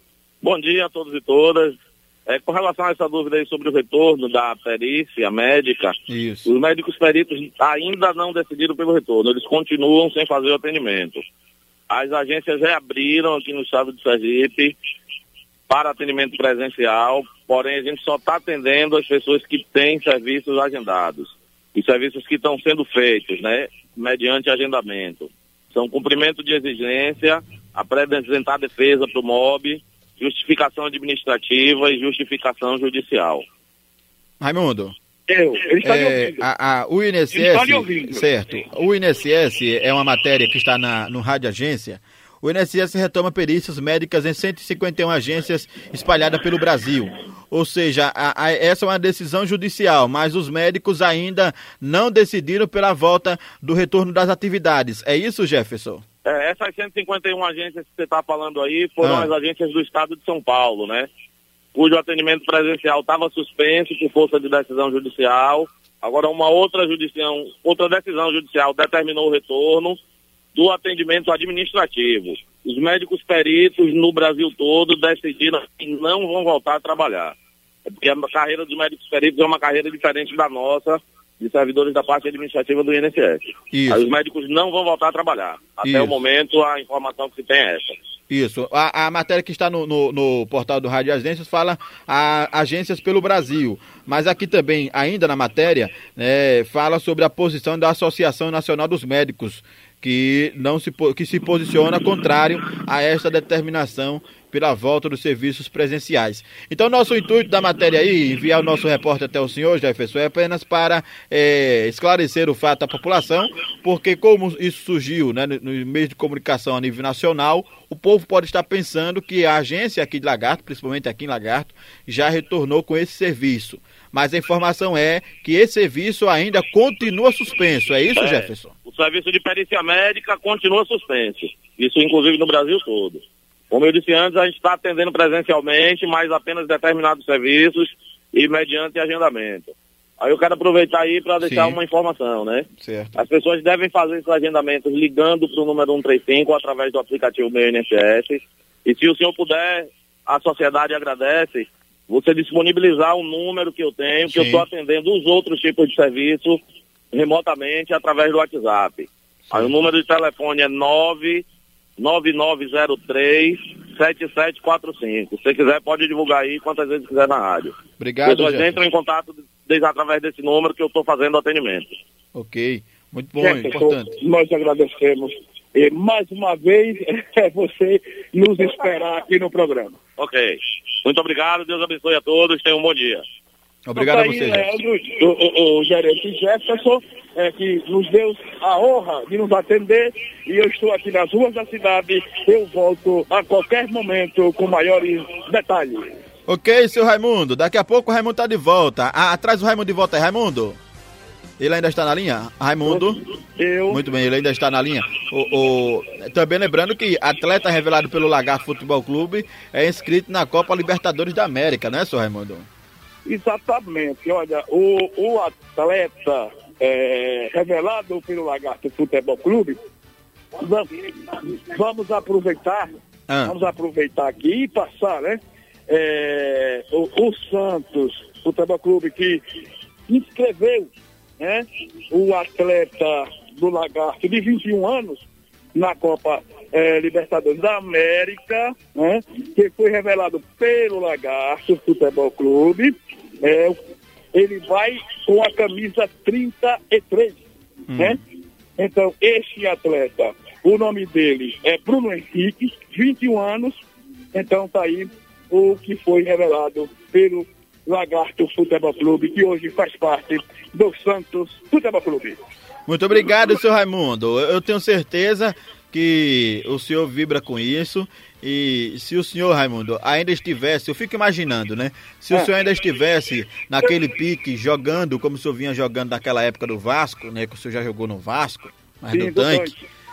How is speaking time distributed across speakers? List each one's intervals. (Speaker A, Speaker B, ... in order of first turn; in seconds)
Speaker A: 0.4-1.8, 2.3-11.2, 11.9-14.7, 15.7-33.4, 56.2-61.1, 61.7-70.0, 70.5-77.3, 78.0-88.0, 128.2-156.6, 157.1-161.4, 162.0-167.7, 168.2-171.9, 180.2-183.2
Speaker B: 6.1-6.5, 34.4-34.9, 35.8-56.0, 59.0-59.3, 83.7-84.0, 85.8-86.1, 88.3-128.7, 141.4-141.8, 142.8-143.2, 154.3-154.7, 168.0-168.8, 172.3-174.1, 183.8-184.7, 196.5-200.8, 201.6-203.2, 203.9-212.7, 223.3-223.5, 247.9-248.2, 262.9-279.7
Speaker C: 35.3-36.5, 37.3-38.2, 173.4-180.0, 183.9-196.1, 202.8-204.0, 213.2-219.8, 220.6-222.9, 223.4-229.4, 230.1-243.8, 244.3-247.4, 248.8-253.8, 254.3-262.4, 279.1-279.8